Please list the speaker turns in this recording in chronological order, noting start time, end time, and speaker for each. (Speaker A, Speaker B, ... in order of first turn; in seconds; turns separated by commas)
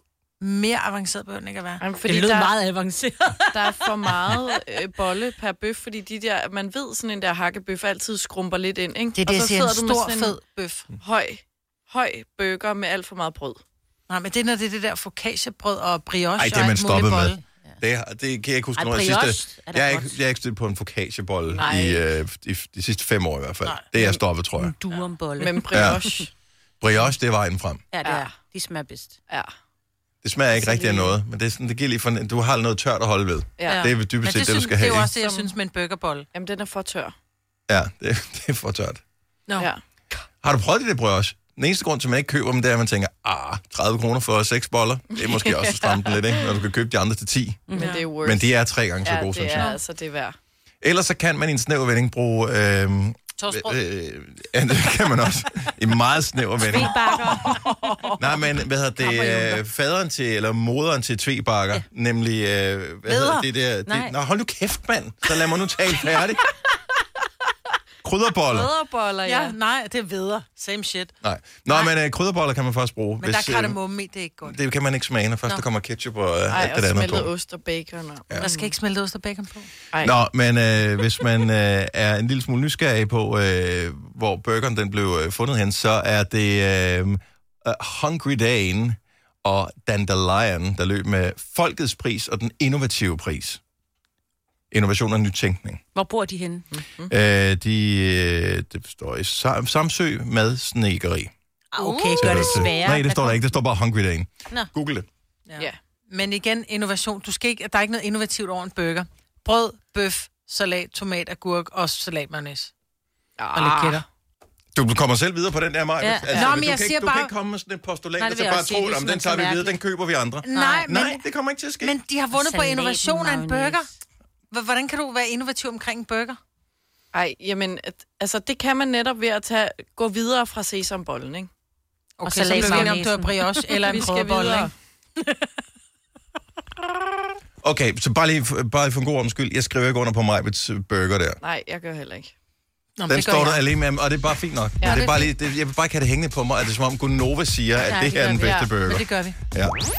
Speaker A: 0.4-2.2, Speaker B: 1.8-2.6, Speaker C: 2.1-3.8, Speaker B: 3.5-10.4, Speaker A: 9.2-10.9, Speaker B: 11.0-13.6, Speaker A: 14.1-17.4, Speaker D: 16.4-24.8, Speaker C: 18.8-20.2, Speaker B: 21.5-22.1, Speaker C: 24.6-26.2, Speaker B: 25.4-26.3, Speaker D: 25.7-26.0, Speaker D: 26.8-27.8, Speaker A: 27.9-28.4, Speaker B: 28.0-28.4, Speaker C: 28.4-29.1, Speaker D: 30.2-35.1, Speaker B: 30.5-31.2, Speaker B: 33.6-33.9, Speaker A: 33.7-36.3, Speaker B: 35.2-35.5, Speaker B: 36.3-37.1, Speaker D: 37.7-39.0, Speaker D: 40.4-49.8, Speaker B: 45.2-46.6, Speaker C: 47.7-48.1, Speaker B: 47.7-50.4, Speaker D: 50.8-57.5, Speaker A: 53.4-53.8, Speaker C: 56.6-58.2, Speaker A: 57.4-58.4, Speaker D: 58.2-66.4, Speaker A: 59.0-59.6, Speaker A: 63.1-63.5, Speaker C: 63.9-64.1, Speaker D: 68.0-68.7, Speaker B: 68.5-69.6, Speaker A: 69.2-71.1, Speaker D: 71.2-73.8, Speaker A: 73.2-74.6, Speaker D: 74.4-77.3, Speaker B: 76.5-78.8, Speaker A: 78.4-79.7, Speaker D: 80.0-93.6, Speaker D: 94.7-95.8, Speaker C: 95.9-96.7, Speaker B: 96.7-97.1, Speaker D: 97.1-101.3, Speaker A: 101.7-102.7, Speaker C: 101.8-103.4, Speaker D: 102.2-105.1, Speaker A: 105.5-112.7, Speaker B: 113.4-114.0, Speaker A: 113.5-114.0, Speaker D: 114.7-122.0, Speaker C: 116.0-116.4, Speaker B: 116.3-116.6, Speaker A: 116.3-117.3, Speaker A: 118.2-118.8, Speaker C: 118.2-119.8, Speaker A: 120.5-121.3, Speaker C: 120.5-120.8, Speaker A: 121.8-123.9, Speaker C: 122.3-123.8, Speaker A: 124.5-126.4, Speaker B: 127.1-131.5, Speaker C: 132.2-133.8, Speaker A: 132.2-134.7, Speaker B: 132.5-133.0, Speaker B: 133.8-134.7, Speaker D: 137.6-141.4, Speaker B: 141.4-142.3, Speaker A: 143.0-143.7, Speaker D: 143.1-149.8, Speaker B: 144.8-145.1, Speaker A: 144.8-145.3, Speaker A: 147.8-149.4, Speaker B: 148.4-148.7